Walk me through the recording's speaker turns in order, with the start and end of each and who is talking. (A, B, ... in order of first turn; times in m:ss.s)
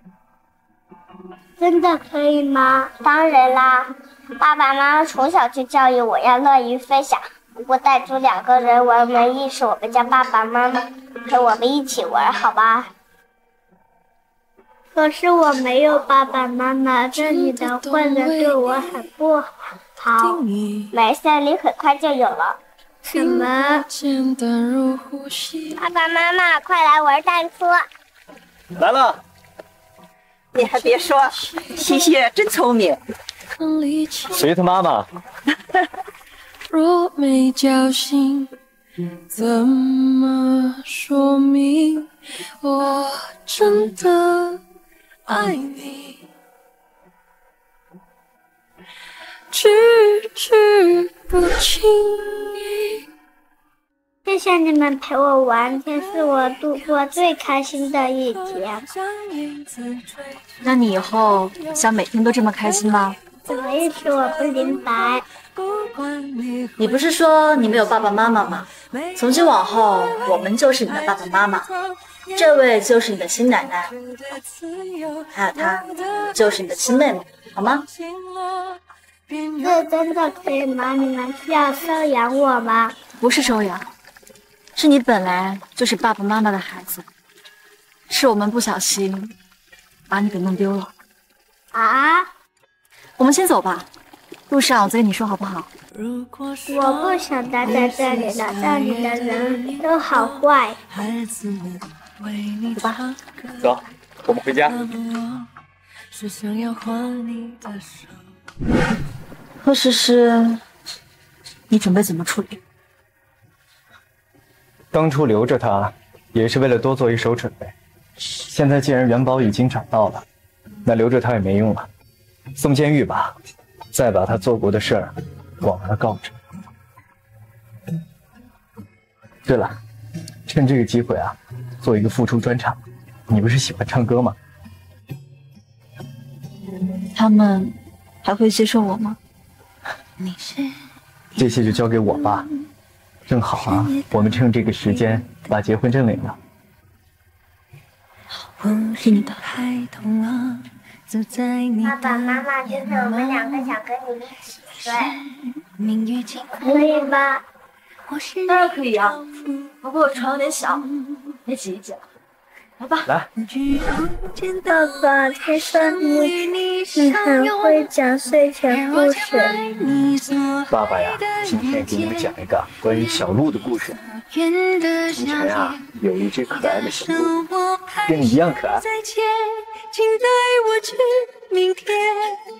0:01.6-0:12.9 A
0:14.9-0:23.8 A
0:17.2-0:18.6 B
0:20.2-0:20.9 B
0:23.2-0:25.7 B
0:25.8-0:27.9 A
0:28.7-0:29.2 C
0:30.5-0:33.0 D
0:33.6-0:34.4 B
0:34.3-0:35.1 C
0:36.7-0:38.5 B
0:39.3-0:42.1 B
0:42.6-0:44.6 B
0:45.3-0:46.2 B
0:49.5-0:52.9 B
0:54.3-0:58.9 A
0:59.5-1:00.0 B
1:00.6-1:03.2 E
1:03.5-1:05.2 A
1:06.8-1:11.7 E
1:12.3-1:13.9 E
1:15.3-1:17.9 E
1:19.6-1:23.0 A
1:23.2-1:23.9 E
1:24.8-1:27.1 E
1:28.1-1:29.4 E
1:30.1-1:30.9 E
1:31.7-1:32.3 A
1:33.2-1:33.9 E
1:34.5-1:35.7 E
1:36.2-1:39.7 B
1:36.7-1:40.8 A
1:41.0-1:42.7 B
1:43.6-1:44.8 C
1:46.1-1:48.1 B
1:49.6-1:50.6 E
1:51.7-1:52.6 E
1:54.9-1:57.7 C
1:58.4-2:00.2 C
2:00.8-2:01.9 C
2:02.6-2:03.4 C
2:03.9-2:06.4 C
2:09.5-2:09.8 C
2:10.5-2:14.4 C
2:17.1-2:19.2 E
2:21.4-2:22.5 C
2:23.3-2:26.4 C
2:29.0-2:29.4 E
2:29.2-2:33.7 B
2:31.8-2:35.2 A
2:35.8-2:36.6 B
2:36.6-2:37.4 A
2:38.1-2:38.5 B
2:38.5-2:39.2 E
2:39.2-2:39.6 B
2:39.8-2:40.9 E
2:41.5-2:42.0 E
2:42.8-2:43.1 E
2:44.4-2:49.6 A
2:45.9-2:47.9 B
2:48.7-2:50.7 B
2:50.7-2:54.0 C
2:51.5-2:52.0 B
2:54.3-2:55.8 B
2:55.2-2:57.3 C
2:57.3-2:57.9 B
2:58.1-2:58.9 C
2:58.9-3:02.4 B